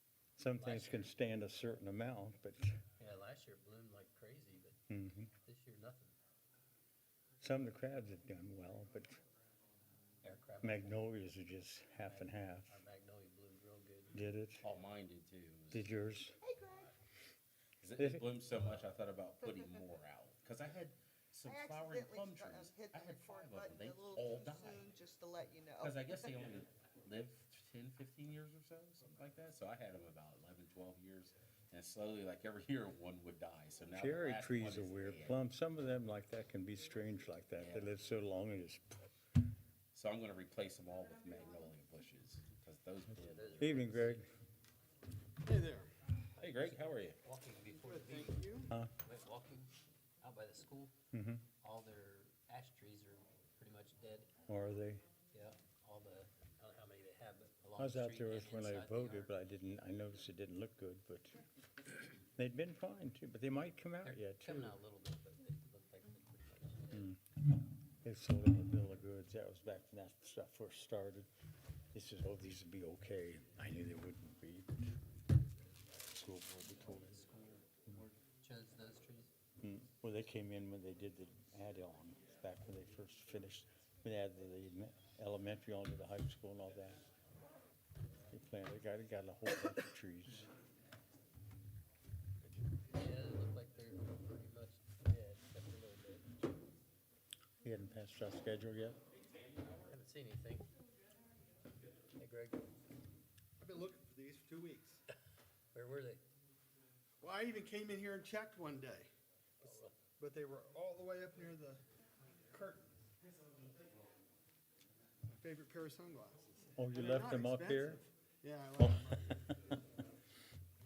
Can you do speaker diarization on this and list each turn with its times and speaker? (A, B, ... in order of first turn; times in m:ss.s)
0:00.4-0:02.8 A
0:00.6-0:01.2 B
0:03.0-0:04.8 B
0:04.9-0:05.3 A
0:05.4-0:06.2 B
0:07.4-0:09.2 A
0:10.2-0:11.0 B
0:10.6-0:12.8 A
0:12.0-0:14.2 B
0:14.1-0:14.6 A
0:14.6-0:16.0 C
0:15.7-0:16.4 A
0:16.4-0:16.9 D
0:17.8-0:25.0 C
0:18.0-0:18.3 A
0:19.4-0:19.9 D
0:21.4-0:26.3 D
0:25.8-0:35.4 C
0:33.9-0:39.0 A
0:37.6-0:38.0 C
0:39.9-0:44.0 C
0:43.1-0:44.3 B
0:43.6-0:44.3 A
0:45.4-0:45.9 E
0:46.4-0:50.9 B
0:46.4-0:47.2 C
0:47.7-0:48.7 E
0:51.1-0:51.5 A
0:51.6-0:54.3 B
0:54.5-0:55.1 A
0:55.3-0:59.3 B
0:57.8-1:04.8 A
1:04.0-1:07.1 B
1:06.9-1:07.2 A
1:08.0-1:11.3 A
1:11.9-1:15.0 A
1:16.1-1:17.3 A
1:16.8-1:17.6 B
1:18.3-1:19.3 B
1:19.6-1:27.0 A
1:28.3-1:30.5 A
1:32.9-1:36.3 B
1:37.6-1:39.0 A
1:39.7-1:40.7 B
1:42.2-1:42.7 B
1:43.6-1:45.0 E
1:45.7-1:46.2 B
1:47.2-1:49.1 E
1:49.6-1:50.0 B
1:49.6-1:51.8 E
1:52.5-1:53.0 E
1:55.3-1:59.5 E
1:56.8-1:58.0 A
1:58.8-1:59.3 A